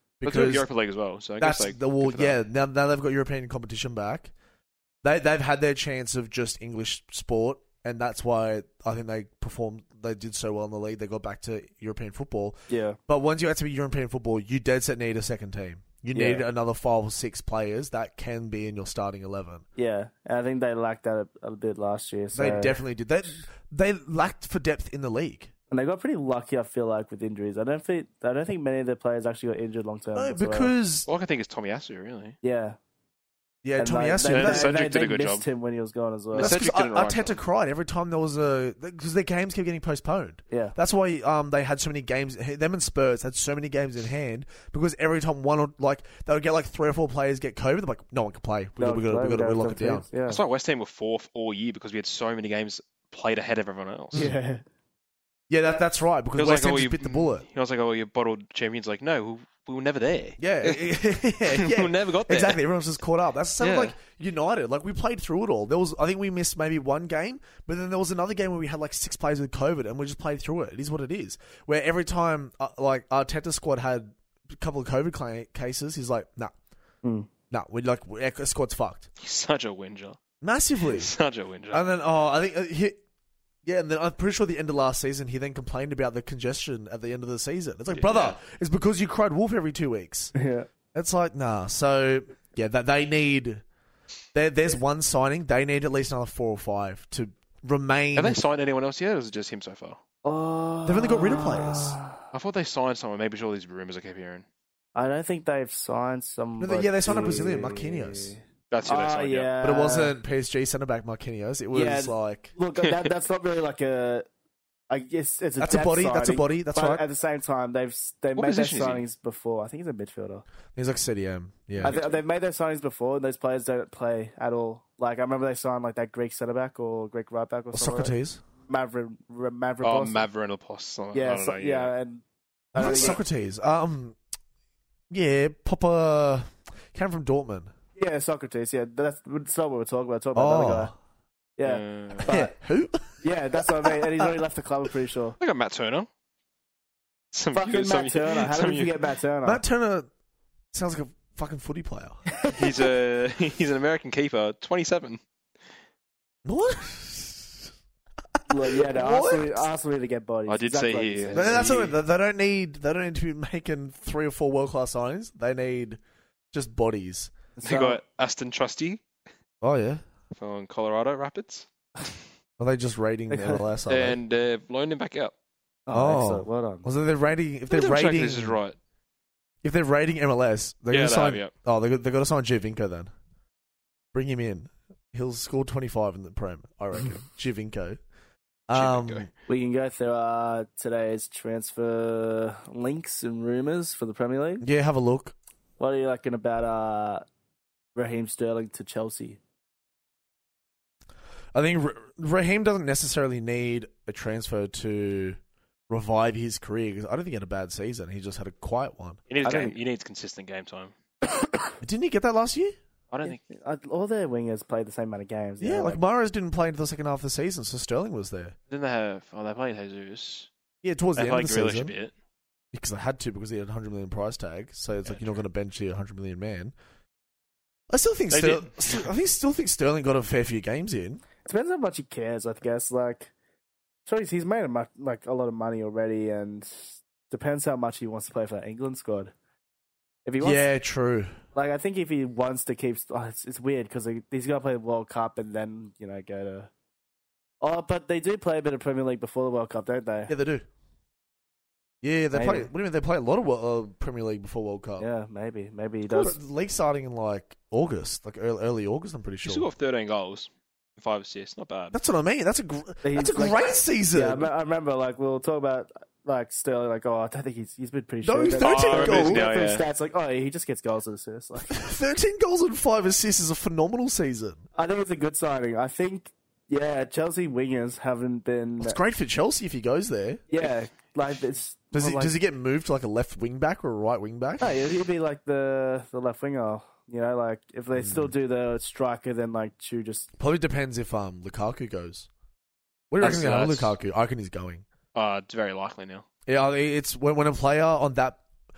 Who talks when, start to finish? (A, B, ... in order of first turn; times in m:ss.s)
0:00.2-0:00.7 A
0:00.2-0:02.4 B
0:01.4-0:04.3 A
0:05.0-0:12.6 A
0:12.7-0:13.0 C
0:13.1-0:19.6 A
0:16.1-0:16.4 C
0:19.8-0:22.7 C
0:22.3-0:25.5 A
0:25.7-0:30.7 C
0:30.1-0:31.1 A
0:31.1-0:32.4 B
0:32.4-0:32.8 C
0:33.6-0:34.8 A
0:33.8-0:36.6 C
0:34.3-0:35.4 B
0:36.3-0:37.4 B
0:36.4-0:50.0 A
0:40.5-0:40.8 C
0:48.8-0:50.4 C
0:50.3-0:54.3 B
0:54.1-0:54.6 C
0:55.5-0:57.4 A
0:56.4-1:00.9 B
1:00.4-1:16.5 A
1:01.5-1:02.6 B
1:03.6-1:03.9 B
1:17.0-1:17.3 C
1:17.5-1:19.1 A
1:19.2-1:20.2 B
1:20.4-1:21.1 A
1:20.8-1:21.9 B
1:21.7-1:23.0 A
1:23.6-1:30.3 A
1:27.9-1:28.4 B
1:30.3-1:30.7 C
1:30.9-1:33.6 A
1:34.3-1:38.4 A
1:38.2-1:40.0 B
1:40.2-1:42.2 C
1:40.8-1:42.0 A
1:42.3-1:44.4 B
1:44.9-1:50.1 C
1:46.6-1:48.4 A
1:48.7-1:49.5 B
1:49.6-1:52.5 A
1:51.7-1:54.3 C
1:52.8-1:53.1 B
1:54.9-2:00.4 C
1:55.6-1:57.0 A
1:58.4-1:59.0 B
2:00.7-2:02.0 A
2:01.8-2:02.2 B
2:01.8-2:08.1 C
2:07.7-2:08.4 A
2:08.6-2:10.3 C
2:09.8-2:11.9 B
2:11.1-2:12.2 C
2:12.7-2:13.2 C
2:12.7-2:14.2 A
2:12.8-2:13.2 B
2:15.1-2:17.7 A
2:18.0-2:20.9 C
2:20.3-2:21.0 A
2:21.6-2:22.5 C
2:21.6-2:22.3 B
2:22.3-2:24.3 A
2:23.2-2:25.4 C
2:25.4-2:26.1 B
2:27.3-2:29.1 B
2:27.5-2:29.6 C
2:29.4-2:30.1 A
2:30.7-2:32.2 A
2:32.3-2:32.9 C
2:32.5-2:35.2 B
2:36.4-2:37.7 A
2:38.4-2:39.6 A
2:38.5-2:41.9 C
2:40.5-2:42.0 B
2:41.3-2:46.0 A
2:46.5-2:47.3 A
2:47.6-2:48.0 C
2:47.6-2:49.0 B
2:49.6-2:50.0 A
2:50.3-2:52.1 B
2:52.6-2:54.2 A
2:53.3-2:53.6 C
2:53.9-2:55.3 B
2:55.9-2:56.9 C
2:55.9-2:58.6 A
2:57.7-2:58.8 B
2:59.6-3:03.1 A
3:00.9-3:01.5 B
3:04.1-3:08.0 A
3:08.7-3:09.3 A
3:08.7-3:09.3 B
3:09.5-3:14.6 C
3:14.6-3:15.4 A
3:15.8-3:17.2 C
3:17.9-3:19.4 C
3:21.5-3:25.4 A
3:25.9-3:29.2 A
3:29.3-3:30.9 B
3:29.4-3:29.8 C
3:31.2-3:31.7 C
3:31.8-3:32.7 A
3:33.1-3:33.4 B
3:33.2-3:36.0 C
3:35.6-3:38.6 A
3:38.7-3:40.5 B
3:40.8-3:41.9 A
3:41.2-3:42.1 B
3:42.7-3:46.7 A
3:45.0-3:45.3 B
3:47.9-3:51.2 A
3:48.3-3:49.1 B
3:51.4-3:53.3 C
3:54.0-3:59.3 C
4:00.2-4:00.6 C
4:00.4-4:01.4 A
4:01.5-4:06.7 C
4:07.6-4:10.3 C
4:10.3-4:10.6 A
4:12.0-4:15.1 A
4:12.3-4:12.7 C
4:15.0-4:16.4 C
4:16.1-4:19.7 A
4:19.4-4:22.0 B
4:21.9-4:24.5 A
4:23.0-4:31.8 C
4:28.2-4:29.5 A
4:28.6-4:29.9 B
4:31.6-4:34.6 A
4:34.8-4:39.0 C
4:38.8-4:40.4 A
4:40.5-4:42.3 C
4:41.9-4:44.7 A
4:44.6-4:50.3 C
4:48.0-4:48.3 A
4:50.4-4:52.3 A
4:53.1-4:54.8 A
4:53.2-4:54.0 B
4:55.1-4:56.2 B
4:56.4-4:58.4 A